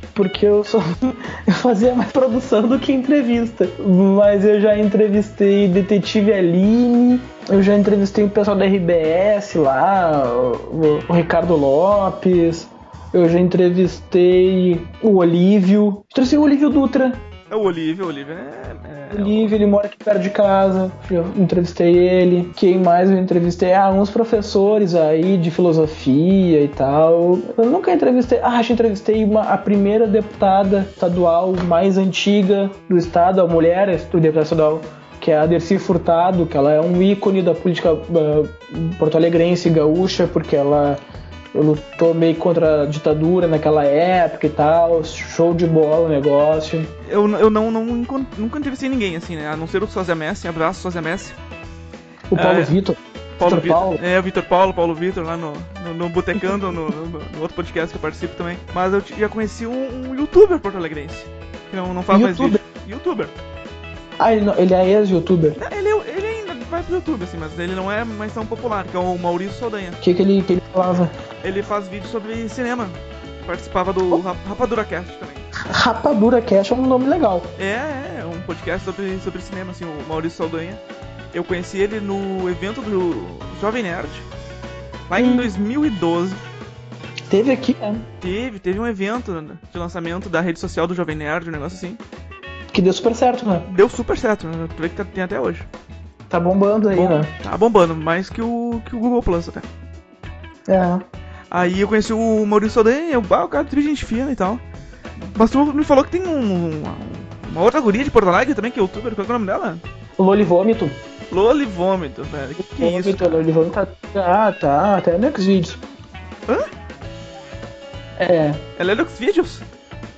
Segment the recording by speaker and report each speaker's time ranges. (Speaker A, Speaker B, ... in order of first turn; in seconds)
Speaker A: 0.1-17.2, 19.1-41.0, 41.5-46.9, 52.3-54.0, 56.4-56.8, 62.1-62.6, 64.2-65.6, 70.0-71.1, 75.5-77.5, 85.2-85.5, 87.3-88.1, 92.7-93.7, 96.3-97.3, 100.7-101.0, 110.2-111.0, 112.6-115.8, 118.2-118.7
Speaker B: 17.5-19.6, 47.0-51.4, 52.4-52.8, 53.4-63.3, 65.6-70.0, 71.4-75.5, 77.6-80.8, 81.3-84.3, 85.1-86.4, 88.2-92.0, 93.7-95.7, 96.9-99.7, 101.5-104.6, 105.2-109.8, 111.3-113.5, 118.8-119.7